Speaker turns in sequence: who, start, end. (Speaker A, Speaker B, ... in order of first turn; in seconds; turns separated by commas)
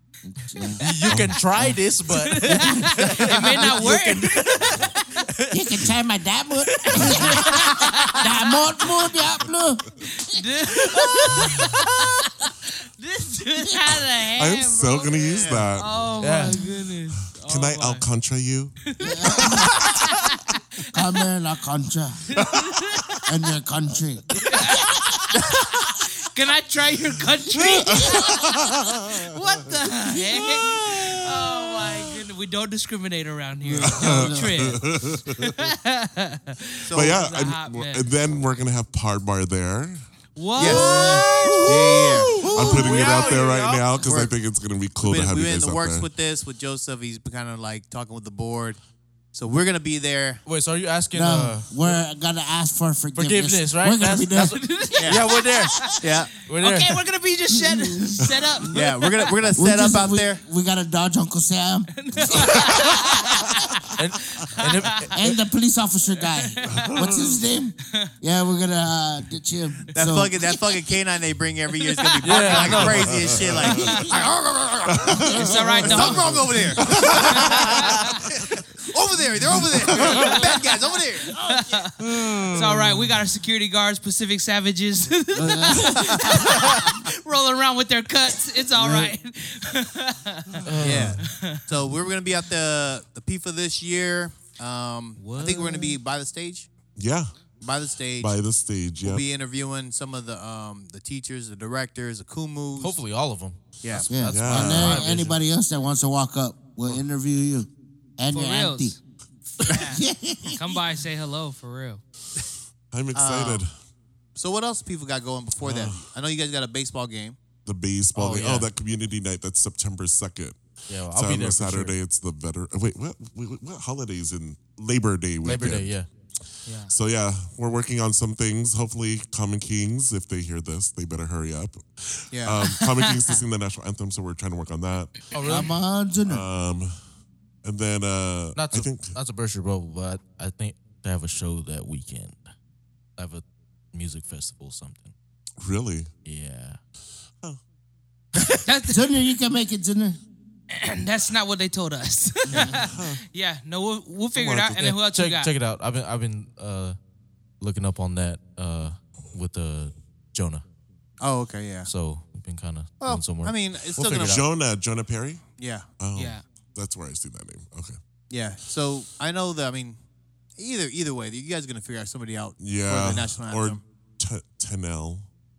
Speaker A: 0.2-0.9, Speaker B: 0.8-4.8, Speaker C: 1.1-1.4, Speaker A: 1.6-1.8, Speaker D: 2.1-5.2, Speaker A: 2.5-3.9, Speaker A: 5.5-12.0, Speaker D: 6.8-8.6, Speaker D: 10.1-18.0, Speaker A: 13.7-13.9, Speaker C: 14.2-16.2, Speaker E: 15.3-15.7, Speaker B: 16.2-16.6, Speaker C: 17.3-18.8, Speaker D: 18.8-21.2, Speaker A: 19.0-19.9, Speaker A: 20.9-22.2, Speaker D: 22.3-23.2, Speaker C: 22.3-22.7, Speaker A: 23.2-25.2, Speaker D: 24.3-28.5, Speaker C: 27.5-29.4, Speaker A: 27.9-28.3, Speaker D: 29.1-38.1, Speaker A: 30.1-30.6, Speaker C: 30.3-32.2, Speaker A: 33.6-34.8, Speaker C: 33.8-35.6, Speaker E: 36.8-37.2, Speaker C: 36.9-40.0, Speaker D: 40.4-41.8, Speaker E: 40.5-40.9, Speaker A: 40.6-43.1, Speaker E: 41.6-42.3, Speaker B: 42.4-43.9, Speaker C: 42.5-46.1, Speaker E: 44.0-44.3, Speaker E: 45.0-48.8, Speaker E: 49.3-50.4, Speaker B: 50.4-52.0, Speaker A: 51.1-54.6, Speaker B: 53.1-56.0, Speaker D: 54.5-59.3, Speaker E: 55.0-56.3, Speaker B: 56.5-57.0, Speaker A: 57.5-58.8, Speaker E: 58.7-60.4, Speaker A: 59.5-62.9, Speaker D: 61.9-63.8, Speaker C: 62.4-62.8, Speaker B: 64.0-65.1, Speaker D: 64.3-65.1, Speaker A: 65.1-70.6, Speaker D: 66.4-66.8, Speaker C: 66.7-67.4, Speaker D: 67.8-68.1, Speaker E: 69.9-77.9, Speaker D: 71.9-72.8, Speaker B: 72.2-73.2, Speaker C: 72.7-73.7, Speaker D: 73.6-74.2, Speaker C: 74.9-77.8, Speaker D: 75.2-76.4, Speaker A: 75.3-76.4, Speaker D: 77.1-78.2, Speaker E: 78.4-81.3, Speaker D: 80.0-80.5, Speaker D: 81.2-91.8, Speaker C: 82.0-83.1, Speaker A: 85.3-86.3, Speaker E: 85.9-86.4, Speaker B: 90.7-91.2, Speaker E: 90.8-96.7, Speaker D: 95.2-96.0, Speaker C: 97.0-97.3, Speaker E: 97.6-98.4, Speaker C: 98.2-99.2, Speaker E: 99.0-103.0, Speaker B: 102.8-105.4, Speaker E: 103.8-104.1, Speaker A: 104.0-108.9, Speaker C: 104.3-105.1, Speaker D: 108.3-109.0, Speaker D: 109.7-110.0, Speaker A: 109.7-110.8, Speaker D: 110.5-112.0, Speaker C: 112.9-113.7, Speaker E: 113.1-113.7, Speaker E: 114.3-117.4, Speaker C: 115.6-116.0, Speaker C: 117.6-126.0, Speaker B: 118.2-118.7, Speaker D: 118.2-118.5, Speaker B: 120.9-122.0, Speaker B: 125.4-126.0, Speaker D: 126.7-126.9, Speaker C: 126.9-135.6, Speaker E: 132.3-132.6, Speaker D: 132.6-133.4, Speaker B: 135.3-135.7, Speaker A: 135.4-136.4, Speaker C: 136.2-136.9, Speaker C: 137.6-139.2, Speaker B: 138.5-142.4, Speaker B: 143.2-145.1, Speaker C: 145.6-146.1, Speaker B: 146.2-146.8, Speaker D: 148.6-149.1, Speaker A: 148.9-150.2, Speaker D: 150.7-155.5, Speaker C: 152.8-153.2, Speaker C: 154.3-154.8, Speaker B: 154.8-157.0, Speaker B: 157.6-160.6, Speaker E: 161.2-161.9, Speaker B: 161.9-164.4, Speaker E: 163.0-164.4, Speaker C: 164.2-168.0, Speaker E: 165.6-165.9, Speaker D: 166.1-166.4, Speaker E: 168.3-170.0, Speaker E: 170.6-173.8, Speaker C: 172.6-175.3